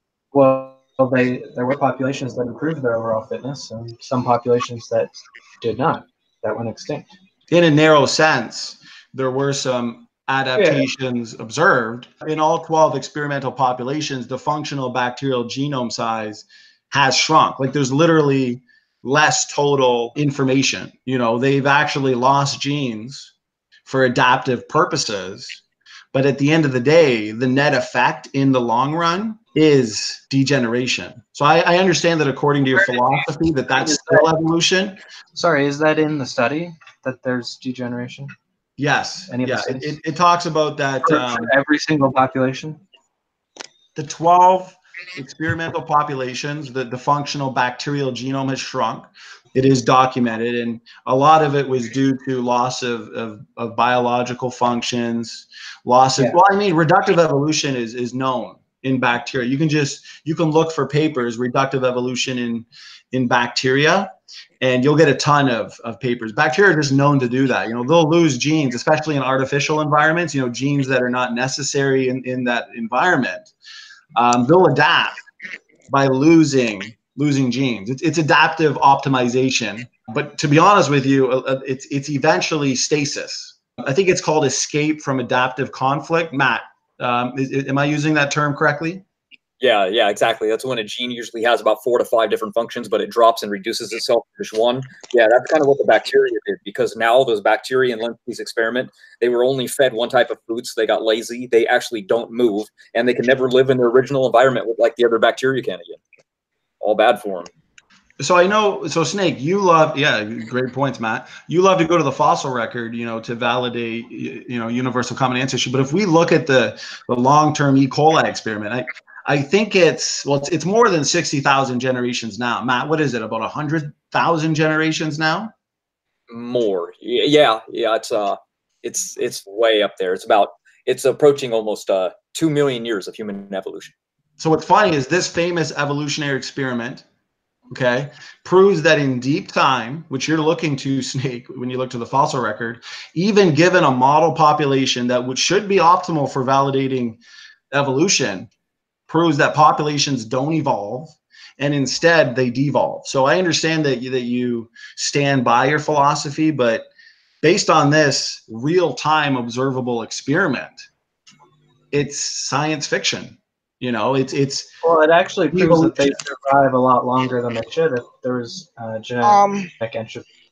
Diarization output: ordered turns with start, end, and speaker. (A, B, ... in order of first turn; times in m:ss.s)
0:00.3-0:07.1 A
0:07.5-0:23.3 B
0:10.6-0:10.9 A
0:23.9-0:25.6 B
0:26.1-0:35.0 B
0:33.7-0:34.4 A
0:35.3-0:38.3 A
0:38.8-0:41.5 B
0:39.3-0:40.0 A
0:41.0-0:42.8 A
0:44.0-1:13.5 B
1:14.2-1:15.2 B
1:15.9-1:29.0 B
1:29.6-1:46.0 C
1:46.8-1:47.5 C
1:48.2-2:05.5 B
2:06.3-2:13.9 C
2:14.4-2:17.0 B
2:17.7-2:27.2 B
2:27.7-2:28.5 B
2:29.1-2:36.9 B
2:37.4-2:40.9 B
2:41.9-2:44.7 B
2:44.8-2:50.2 A
2:45.5-2:46.2 B